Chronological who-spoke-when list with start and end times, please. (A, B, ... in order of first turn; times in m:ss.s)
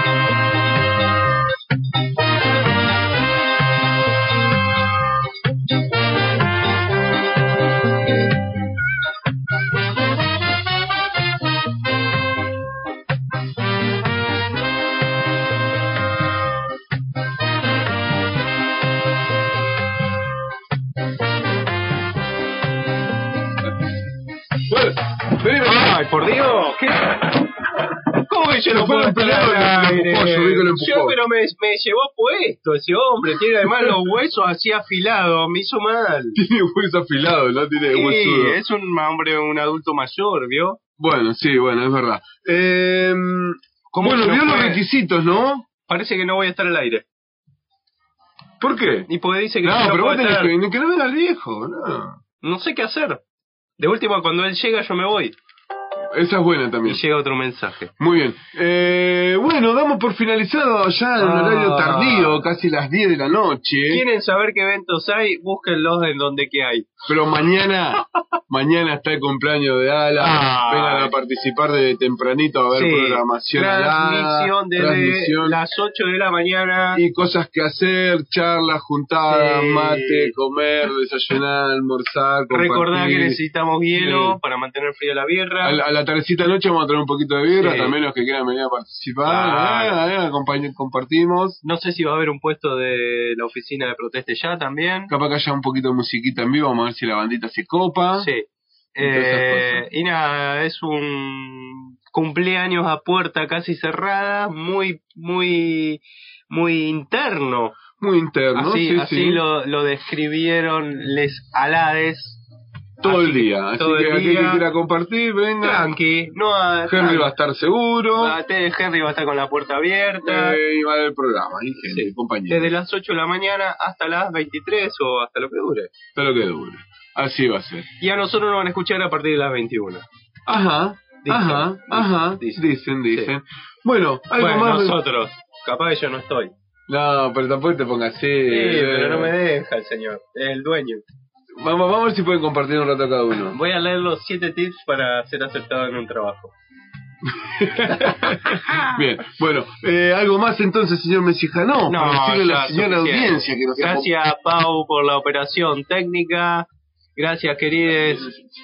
0:24.7-0:26.0 A
0:25.6-0:27.2 B
0:28.3-0:36.4 B
0:28.7-0:31.2 A
0:36.4-0:38.6 A
0:37.9-0:40.8 B
0:41.0-0:45.6 A
0:43.9-0:44.8 B
0:45.9-0:47.0 B
0:48.6-0:49.1 A
0:49.1-0:50.5 B
0:49.6-0:52.2 A
0:52.4-0:53.2 B
0:53.8-0:55.4 B
0:56.1-0:57.0 A
0:56.8-0:57.9 B
0:58.0-1:04.0 A
1:01.2-1:02.5 B
1:03.9-1:07.0 B
1:07.1-1:15.6 A
1:10.2-1:11.1 B
1:12.7-1:17.0 B
1:16.9-1:23.4 A
1:19.3-1:20.3 B
1:22.5-1:25.8 B
1:24.0-1:24.4 A
1:25.6-1:31.6 A
1:27.5-1:28.0 B
1:29.2-1:30.0 B
1:31.6-1:35.1 B
1:35.1-1:38.3 A
1:38.2-1:38.5 B
1:39.0-1:47.8 B
1:39.0-1:39.8 A
1:48.0-1:49.4 A
1:48.6-1:52.4 B
1:53.0-1:55.9 A
1:53.0-1:54.6 B
1:55.6-1:57.3 B
1:56.9-1:58.4 A
1:58.2-2:00.6 B
2:00.2-2:02.7 A
2:01.9-2:05.9 B
2:06.2-2:07.9 A
2:08.0-2:10.0 B
2:10.5-2:15.0 A
2:11.2-2:13.3 B
2:14.4-2:16.5 B
2:16.9-2:19.3 A
2:18.5-2:21.0 B
2:21.6-2:23.6 A
2:23.5-2:26.5 B
2:27.3-2:34.1 A
2:27.9-2:28.9 B
2:31.9-2:38.3 B